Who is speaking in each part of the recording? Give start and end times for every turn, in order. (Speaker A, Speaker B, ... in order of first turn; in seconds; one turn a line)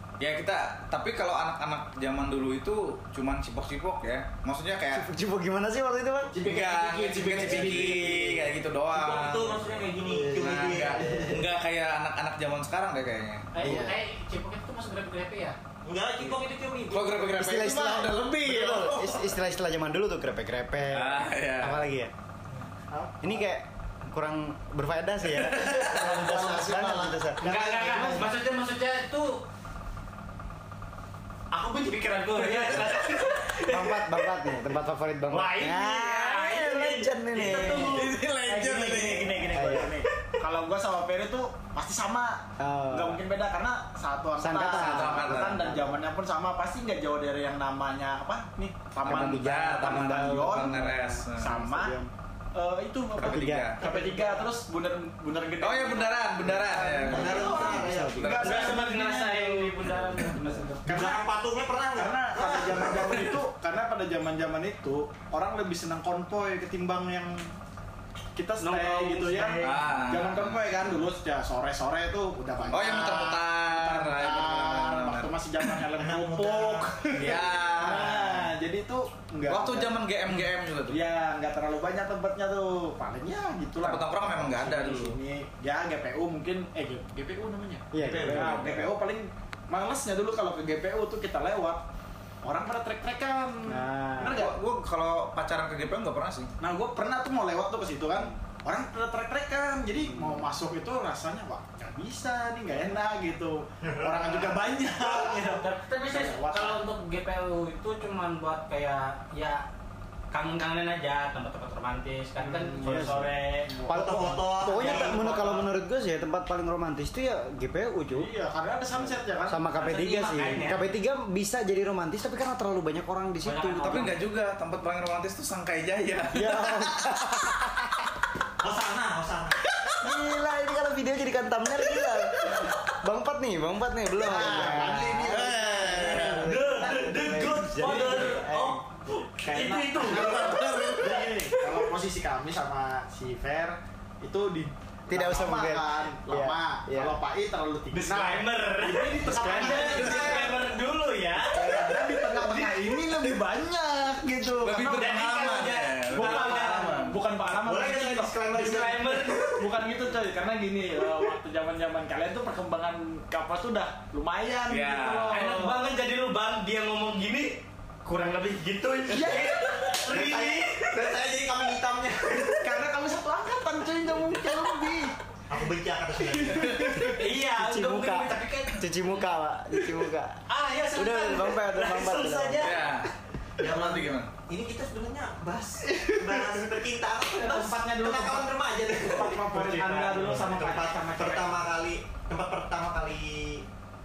Speaker A: 0.2-5.1
Speaker B: 4.9-6.3
Speaker C: 6.3-8.4
Speaker A: 6.4-9.7
Speaker D: 8.9-11.4
Speaker C: 10.0-11.4
Speaker A: 10.3-13.8
Speaker E: 13.5-15.6
Speaker B: 13.6-14.0
Speaker D: 15.8-17.2
Speaker A: 16.9-19.3
Speaker B: 17.3-22.1
Speaker A: 20.9-21.8
Speaker D: 22.9-23.3
Speaker B: 23.2-28.2
Speaker A: 25.3-26.9
Speaker E: 27.4-29.4
Speaker D: 27.4-28.2
Speaker E: 31.5-34.4
Speaker A: 32.4-32.9
Speaker B: 33.6-38.0
Speaker E: 35.3-38.1
Speaker C: 37.4-52.0
Speaker A: 37.7-39.5
Speaker B: 39.5-40.0
Speaker B: 42.6-43.2
Speaker B: 44.4-46.0
Speaker A: 44.5-45.6
Speaker B: 49.0-52.1
Speaker A: 49.0-51.5
Speaker C: 52.5-59.9
Speaker B: 53.2-53.8
Speaker A: 53.2-53.8
Speaker D: 53.8-54.5
Speaker A: 55.6-58.9
Speaker B: 56.7-58.6
Speaker D: 57.0-58.4
Speaker E: 58.2-61.1
Speaker B: 59.8-60.7
Speaker C: 60.9-61.2
Speaker D: 60.9-63.4
Speaker C: 62.0-67.5
Speaker C: 68.3-80.0
Speaker E: 68.6-70.0
Speaker A: 69.6-71.0
Speaker A: 72.7-75.8
Speaker D: 76.0-77.1
Speaker A: 77.1-78.5
Speaker A: 79.5-81.0
Speaker C: 80.9-91.9
Speaker A: 83.8-85.2
Speaker B: 87.9-88.9
Speaker A: 88.0-88.7
Speaker C: 92.4-94.5
Speaker B: 93.7-94.4
Speaker A: 94.3-96.5
Speaker C: 96.6-106.8
Speaker B: 100.1-100.5
Speaker D: 103.8-104.7
Speaker E: 105.0-109.6
Speaker E: 110.3-113.8
Speaker C: 112.4-115.2
Speaker B: 112.8-113.3
Speaker D: 113.8-115.5
Speaker B: 113.9-118.3
Speaker E: 114.8-115.7
Speaker C: 118.1-120.7
Speaker B: 118.9-124.2
Speaker E: 119.8-120.9
Speaker A: 120.3-120.6
Speaker E: 123.4-124.2
Speaker A: 123.8-127.5
Speaker B: 126.3-128.1
Speaker D: 128.6-129.6
Speaker B: 130.0-138.8
Speaker C: 134.2-136.0
Speaker A: 135.3-136.5
Speaker E: 136.0-140.6
Speaker D: 137.1-138.2
Speaker C: 137.8-138.3
Speaker C: 139.4-150.7
Speaker A: 140.2-141.3
Speaker B: 145.1-147.2
Speaker E: 147.9-152.9
Speaker B: 149.3-150.2
Speaker D: 149.5-150.5
Speaker A: 149.9-150.4
Speaker C: 151.5-155.1
Speaker A: 154.6-157.2
Speaker E: 154.7-157.0
Speaker C: 156.1-165.8
Speaker D: 157.5-159.6
Speaker E: 158.6-159.6
Speaker A: 164.7-165.4
Speaker E: 165.3-170.9
Speaker C: 169.1-170.2
Speaker D: 170.1-172.7
Speaker C: 172.5-175.1
Speaker D: 174.0-174.7
Speaker D: 175.5-177.0
Speaker C: 176.3-177.2
Speaker E: 177.0-179.0
Speaker B: 177.3-182.7
Speaker E: 180.5-182.9
Speaker A: 182.6-183.1
Speaker D: 183.6-193.7
Speaker A: 183.6-184.3
Speaker C: 185.9-186.6
Speaker C: 187.4-191.7
Speaker E: 189.6-190.5
Speaker B: 190.2-190.4